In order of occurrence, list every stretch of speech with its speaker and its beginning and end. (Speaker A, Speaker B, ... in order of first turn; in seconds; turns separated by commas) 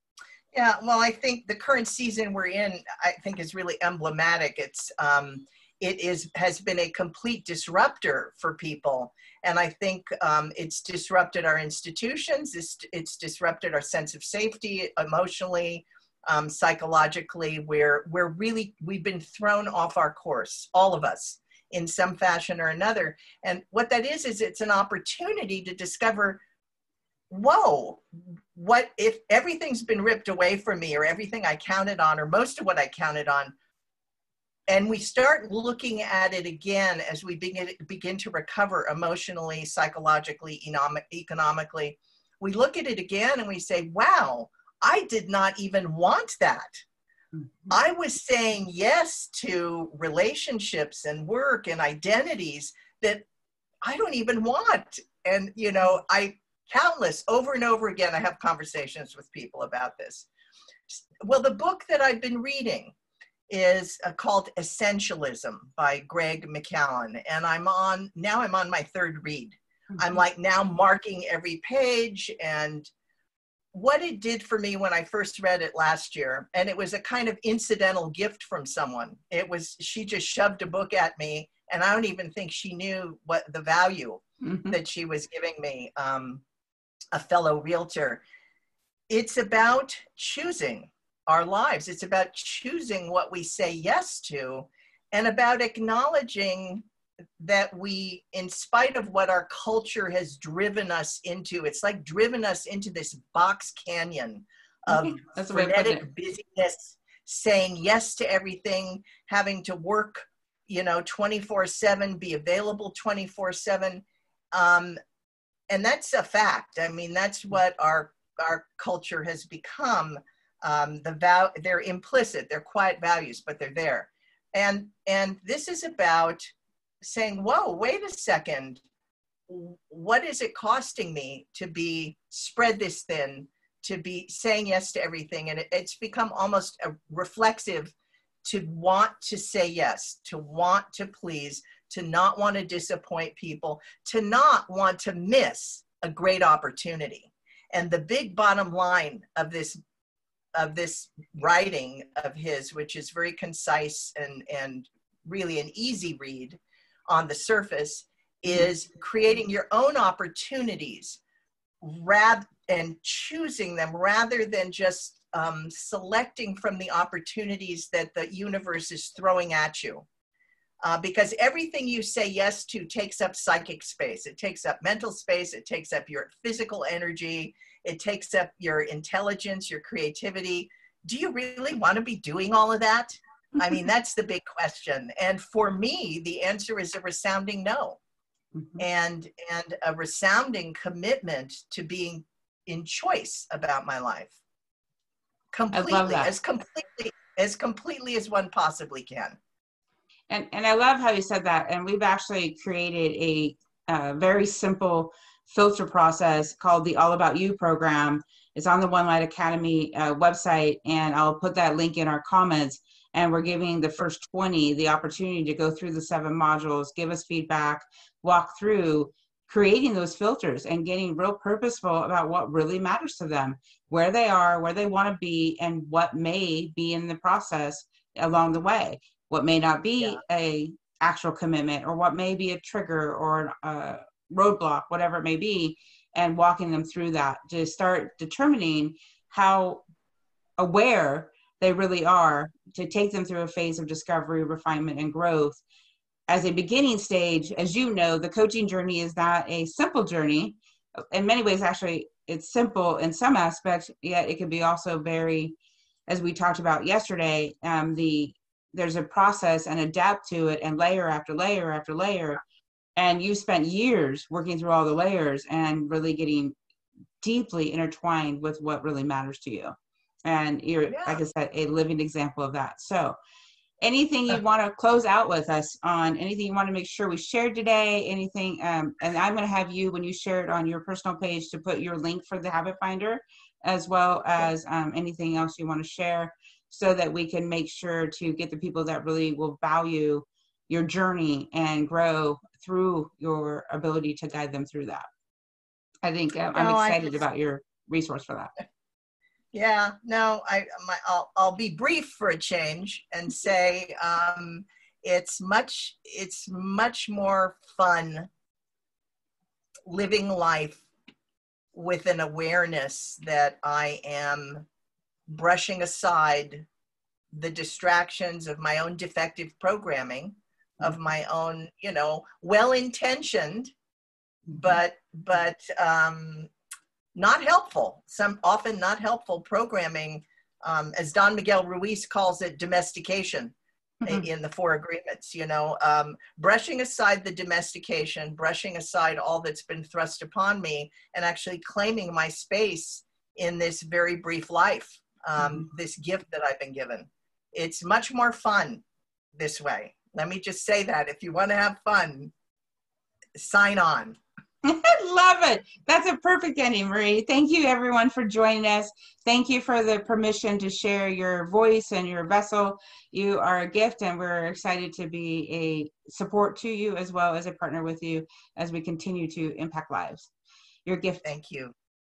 Speaker A: 0.5-26.4, Speaker A: 27.3-33.5, Speaker A: 34.7-46.8, Speaker B: 47.4-47.7, Speaker A: 47.7-53.3, Speaker A: 53.8-60.3, Speaker A: 61.0-62.9, Speaker A: 63.5-72.9, Speaker A: 73.7-86.4, Speaker B: 84.4-84.8, Speaker A: 87.1-88.2, Speaker A: 89.1-96.8, Speaker A: 97.4-115.0, Speaker B: 104.9-106.1, Speaker A: 115.7-126.5, Speaker A: 127.0-128.8, Speaker A: 129.5-149.8, Speaker A: 150.6-161.2, Speaker A: 161.8-170.1, Speaker A: 170.8-188.0, Speaker B: 188.6-188.8, Speaker A: 188.8-194.4, Speaker A: 195.5-199.4, Speaker B: 195.7-196.3, Speaker B: 200.3-239.8, Speaker B: 240.6-245.6, Speaker B: 246.3-250.6, Speaker B: 251.1-255.5, Speaker B: 256.1-262.4, Speaker B: 263.0-266.6, Speaker B: 267.2-269.8, Speaker B: 270.3-273.2, Speaker A: 270.9-271.2, Speaker B: 273.8-295.1, Speaker B: 296.0-298.5, Speaker A: 296.6-297.1, Speaker A: 299.5-308.3, Speaker A: 309.9-310.9, Speaker A: 311.7-314.7, Speaker A: 315.3-316.7, Speaker A: 317.3-323.7, Speaker A: 324.5-326.5, Speaker A: 327.1-348.8, Speaker B: 345.4-345.7, Speaker A: 349.4-352.3, Speaker A: 353.4-354.2, Speaker B: 354.6-370.3, Speaker B: 370.9-371.3, Speaker A: 371.2-371.7